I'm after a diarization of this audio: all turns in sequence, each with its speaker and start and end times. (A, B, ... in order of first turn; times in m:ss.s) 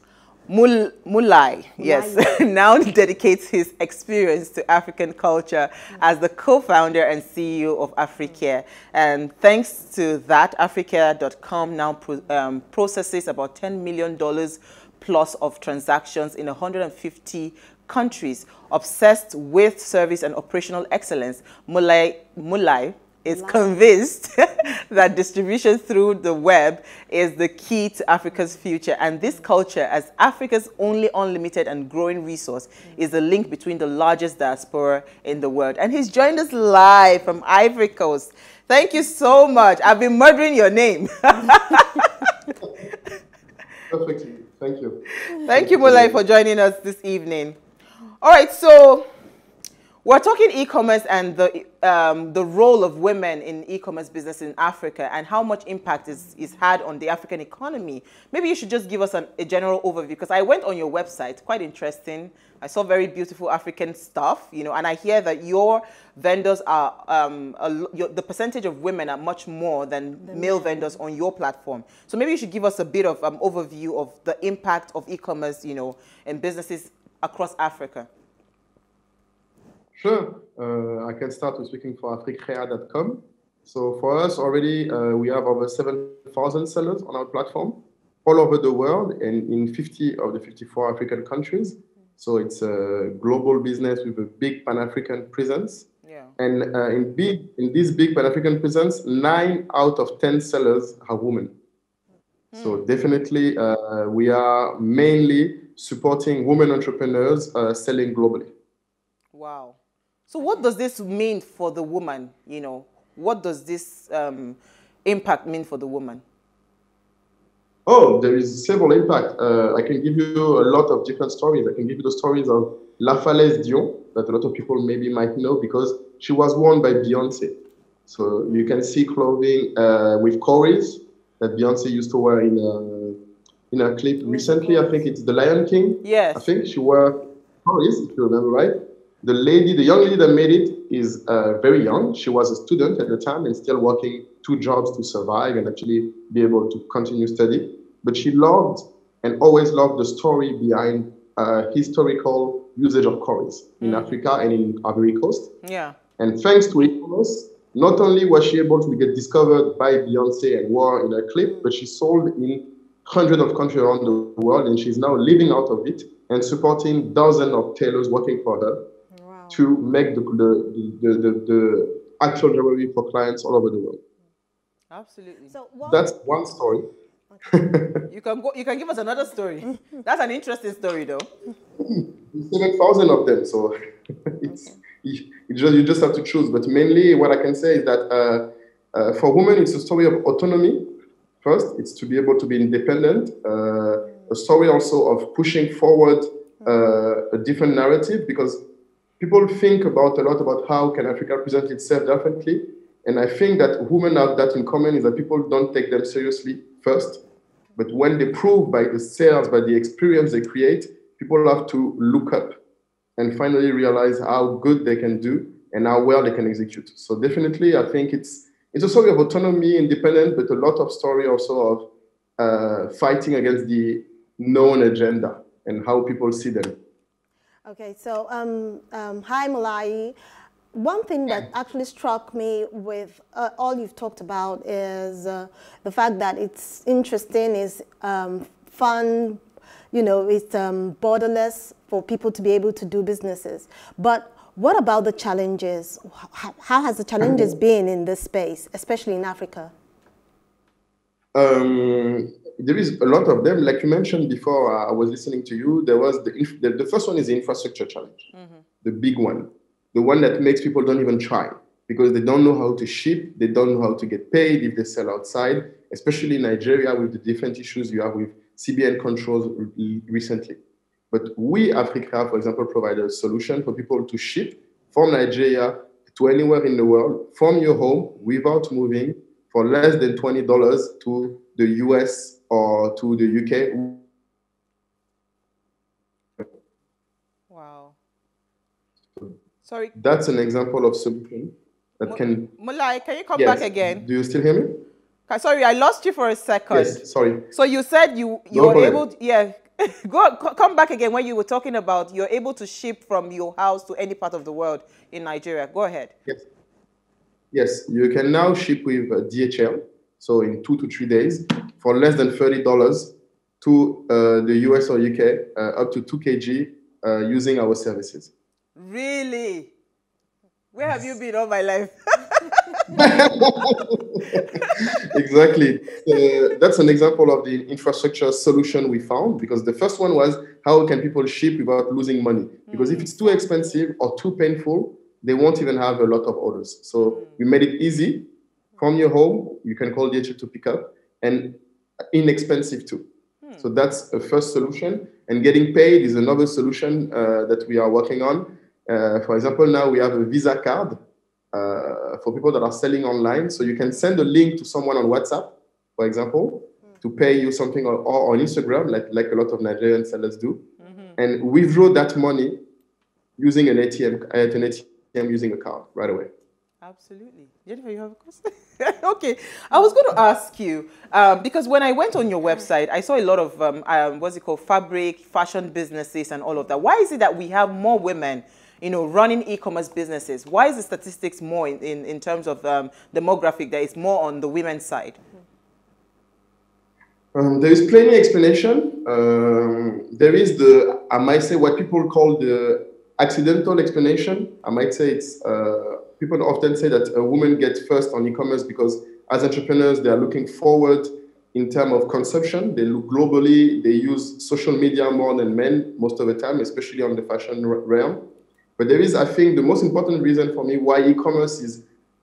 0:00.5-0:42.3 A
0:01.8-0:02.2 B
0:23.2-0:24.0 B
0:43.9-0:46.2 C
0:45.2-0:47.6 A
0:48.2-0:49.0 A
0:50.0-1:18.1 A
1:10.2-1:11.0 B
1:20.0-1:35.8 C
1:36.0-1:36.3 A
1:36.4-1:41.5 C
1:42.5-1:42.9 A
1:42.6-1:48.5 C
1:49.3-1:49.8 A
1:50.3-1:56.2 A
1:57.8-2:13.2 C
2:08.5-2:08.7 B
2:13.7-2:35.5 C
2:14.2-2:15.0 B
2:16.0-2:16.4 A
2:33.8-2:34.2 A
2:35.6-2:36.0 A
2:36.2-2:48.8 C
2:41.4-2:41.7 B
2:49.1-2:49.7 B
2:49.5-2:54.0 C
2:54.9-2:55.5 A
2:55.5-2:56.2 B
2:55.8-2:56.8 C
2:57.3-2:57.6 B
2:57.5-2:58.0 C
2:58.1-3:01.3 A
2:59.6-3:00.0 B
3:01.8-3:03.7 C
3:04.3-3:10.8 C
3:04.5-3:04.8 B
3:11.4-3:18.6 C
3:14.0-3:14.3 B
3:19.2-3:27.2 C
3:27.8-3:32.5 C
3:33.2-3:41.8 C
3:42.4-3:46.8 C
3:47.6-3:50.2 B
3:50.7-3:59.4 B
3:59.9-4:09.7 B
4:07.2-4:07.5 C
4:11.3-4:18.3 C
4:18.3-4:18.6 A
4:18.8-4:30.6 C
4:31.1-4:44.0 C
4:47.5-4:48.0 A
4:49.6-4:49.9 A
4:50.0-4:52.5 C
4:52.0-4:54.0 A
4:53.3-4:54.8 C
4:55.3-4:57.0 A
4:56.7-4:57.4 C
4:57.5-5:06.1 A
4:58.5-4:59.0 C
5:07.5-5:18.3 C
5:18.8-5:19.7 A
5:20.7-5:23.0 A
5:22.9-5:38.3 C
5:24.4-5:24.7 A
5:32.7-5:33.1 A
5:37.0-5:37.4 A
5:38.8-5:41.6 C
5:42.1-5:43.0 C
5:43.6-5:51.0 C
5:51.5-6:00.6 C
6:00.8-6:01.2 A
6:01.2-6:02.6 C
6:03.4-6:06.3 C
6:06.8-6:25.2 A
6:27.3-6:48.2 C
6:48.8-6:51.8 C